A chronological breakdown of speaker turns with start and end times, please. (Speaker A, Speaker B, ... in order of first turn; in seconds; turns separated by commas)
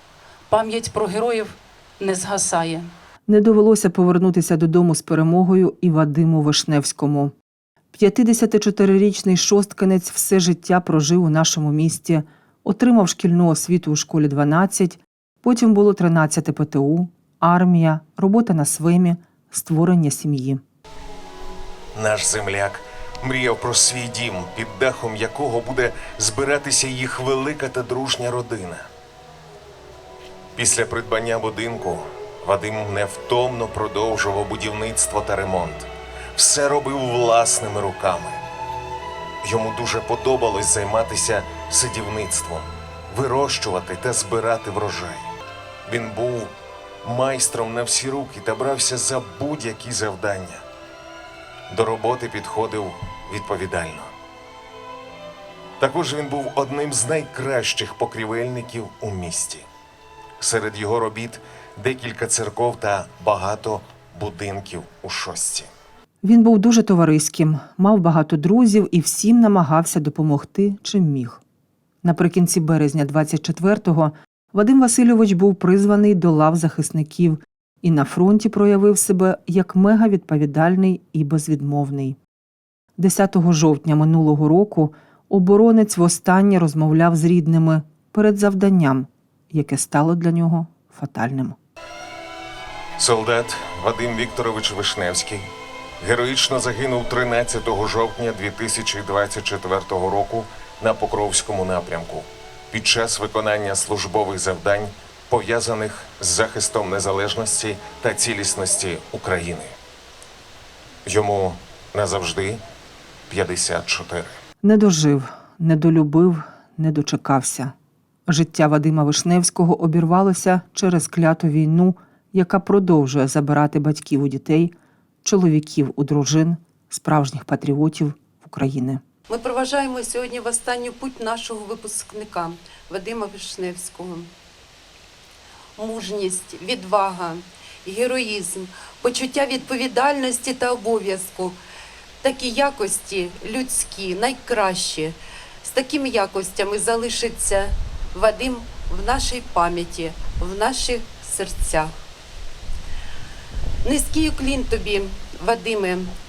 Speaker A: 0.5-2.9, Speaker B: 3.3-7.3, Speaker B: 7.9-20.6, Speaker C: 21.9-28.9, Speaker C: 30.6-38.4, Speaker C: 39.4-45.3, Speaker C: 45.9-50.6, Speaker C: 51.7-54.1, Speaker C: 55.8-59.7, Speaker C: 60.4-65.7, Speaker B: 66.2-71.4, Speaker B: 72.0-82.2, Speaker B: 83.0-91.6, Speaker C: 93.0-95.5, Speaker C: 96.0-109.8, Speaker C: 111.0-112.6, Speaker C: 113.3-114.4, Speaker B: 114.6-117.7, Speaker B: 118.3-124.7, Speaker B: 125.2-129.0, Speaker D: 129.3-134.3, Speaker D: 135.8-141.5, Speaker D: 142.2-145.1, Speaker D: 145.7-151.9, Speaker D: 154.0-156.0